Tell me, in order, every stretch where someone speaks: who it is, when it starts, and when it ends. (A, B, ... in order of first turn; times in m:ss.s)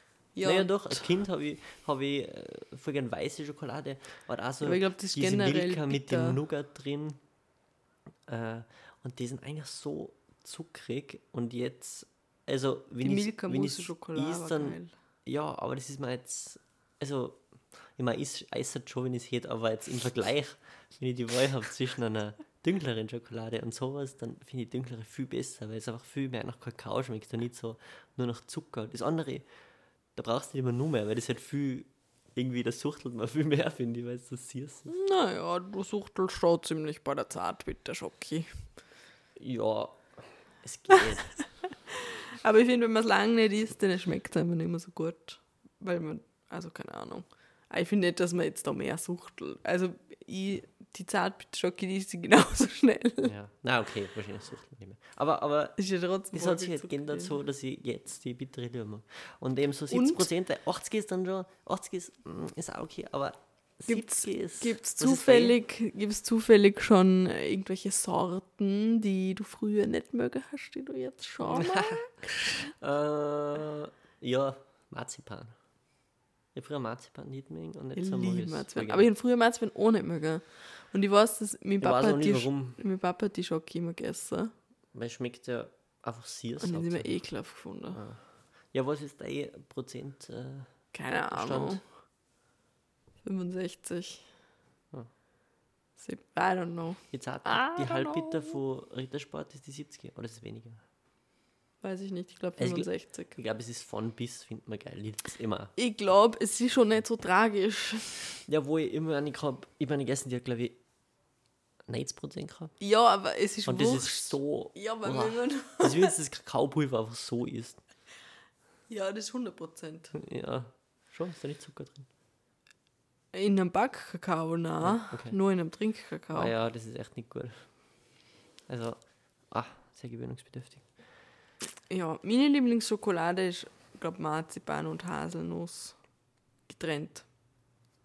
0:00.3-0:01.1 A
0:00.4-0:07.2 B
0:04.6-0:06.4 A
0:08.3-0:17.4 B
0:13.0-0:14.9 A
0:18.0-0:29.5 B
0:30.1-0:34.9 B
0:34.9-0:38.7 A
0:39.4-0:41.4 B
0:42.4-0:53.3 A
0:53.2-0:55.8 B
0:55.8-0:57.3 A
0:56.3-1:05.6 B
0:59.9-1:00.2 A
1:03.9-1:12.1 A
1:11.4-1:12.3 B
1:12.8-1:15.5 B
1:16.5-1:19.1 B
1:17.9-1:24.5 A
1:21.8-1:22.8 B
1:24.9-1:27.1 B
1:26.6-1:28.0 A
1:27.9-1:31.8 B
1:30.9-1:31.8 A
1:33.2-1:34.3 A
1:36.0-1:38.6 A
1:37.1-1:40.8 B
1:41.8-1:43.3 A
1:42.6-1:45.7 B
1:45.8-1:48.4 A
1:48.5-1:50.8 B
1:51.9-1:52.7 B
1:52.8-1:56.1 A
1:53.6-1:57.8 B
1:58.9-2:00.2 A
2:00.1-2:02.1 B
2:03.3-2:06.5 A
2:04.8-2:05.4 B
2:06.3-2:07.6 B
2:08.7-2:10.8 B
2:11.9-2:16.0 A
2:16.7-2:17.2 A